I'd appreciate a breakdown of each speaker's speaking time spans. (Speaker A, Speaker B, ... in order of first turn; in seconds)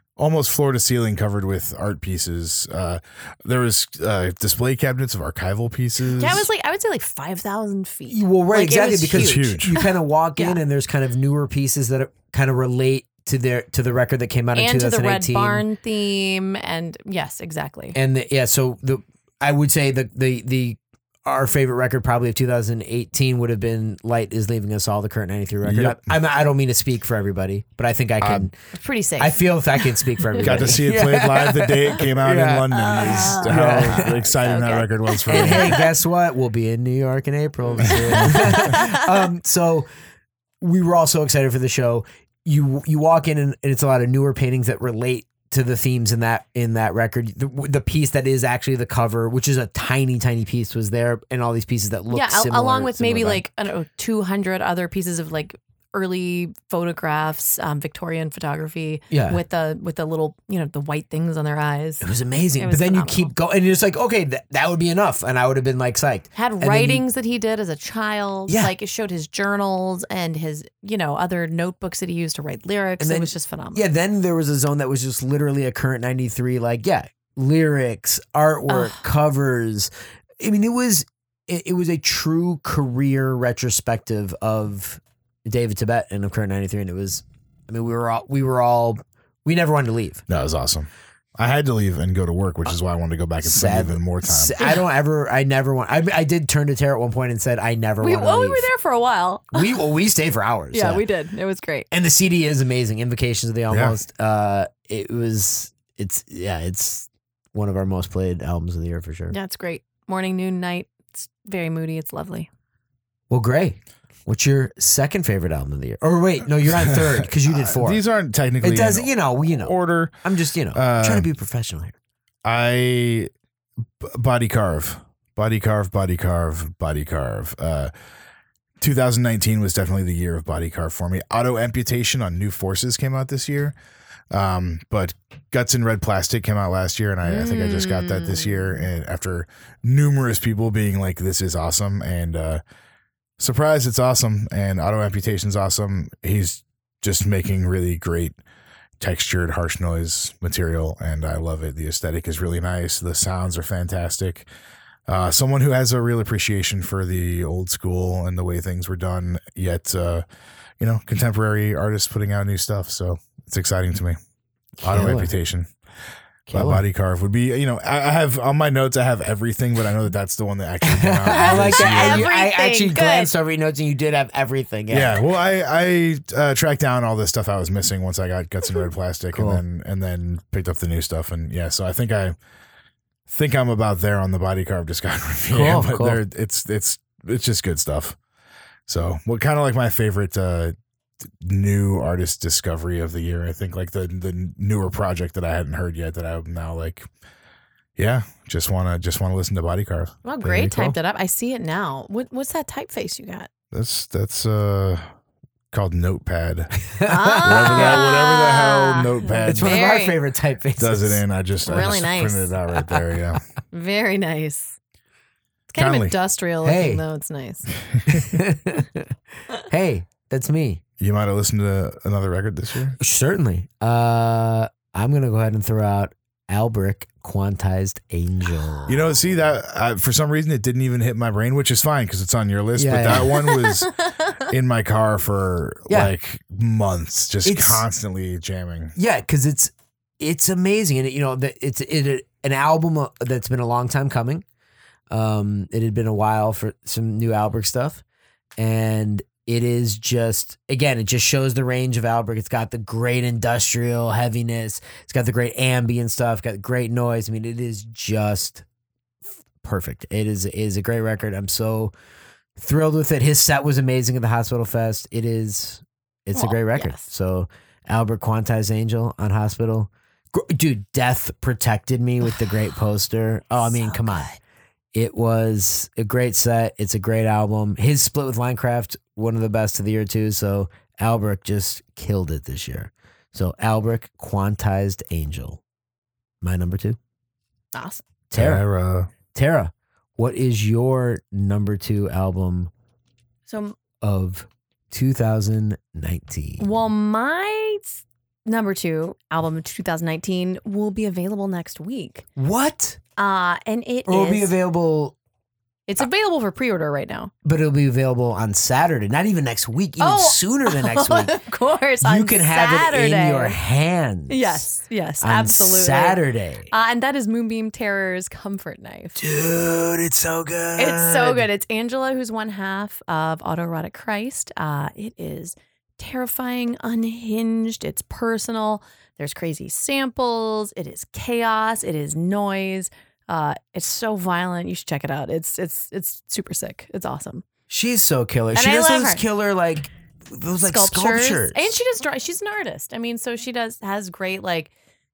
Speaker A: 0.2-6.5, 9.1-9.8, 25.6-26.1, 28.2-28.5, 30.4-35.8, 37.9-38.7, 90.3-94.6, 103.7-104.0, 116.7-120.2, 120.7-121.3, 122.5-123.3, 124.0-127.9, 128.8-133.8, 134.3-142.6, 143.4-148.4, 149.0-154.5, 155.1-160.2, 160.8-164.2, 164.8-165.7, 166.5-172.3, 174.9-182.3, 183.3-188.2, 188.9-190.8, 191.4-197.1, 198.0-200.9, 203.7-205.0, 205.7-206.8, 207.4-209.9, 210.8-213.4, 215.8-216.2, 217.9-218.2, 221.0-223.0, 228.9-239.0, 288.4-289.1
Speaker B: 6.1-10.6, 14.6-18.0, 28.7-30.8, 32.8-35.9, 37.9-39.0, 52.1-62.0, 62.6-63.3, 66.3-73.8, 78.7-79.0, 98.0-99.8, 100.7-101.9, 109.3-112.5, 137.2-138.9, 171.3-173.3, 200.2-203.5, 207.1-210.2, 211.7-212.5, 213.7-214.8, 215.7-217.7, 266.4-267.1, 273.6-274.3, 287.7-288.0, 293.5-293.8, 296.6-302.2, 303.2-304.5, 305.9-307.3, 310.0-313.6, 314.3-319.2, 320.8-337.4, 338.6-339.2, 340.7-344.7
Speaker C: 8.1-15.6, 17.9-28.5, 29.2-34.2, 35.3-39.9, 40.6-53.4, 59.1-59.4, 62.0-67.0, 68.5-68.7, 73.0-90.2, 93.4-98.7, 99.5-101.0, 101.9-109.4, 113.3-118.0, 118.6-122.0, 164.8-165.3, 166.5-166.8, 170.8-175.2, 179.3-179.6, 185.5-186.2, 200.4-200.9, 206.9-208.0, 209.5-211.2, 216.6-217.0, 218.1-220.8, 223.0-229.1, 232.8-233.4, 237.4-237.8, 239.0-244.4, 245.1-248.0, 248.6-258.6, 259.6-261.9, 262.6-274.3, 274.9-285.6, 286.4-287.0, 288.3-288.6, 289.3-292.7, 294.0-296.7, 302.4-303.0, 304.1-305.1, 307.4-311.4, 312.0-314.6, 315.2-316.7, 319.2-321.5, 337.7-341.7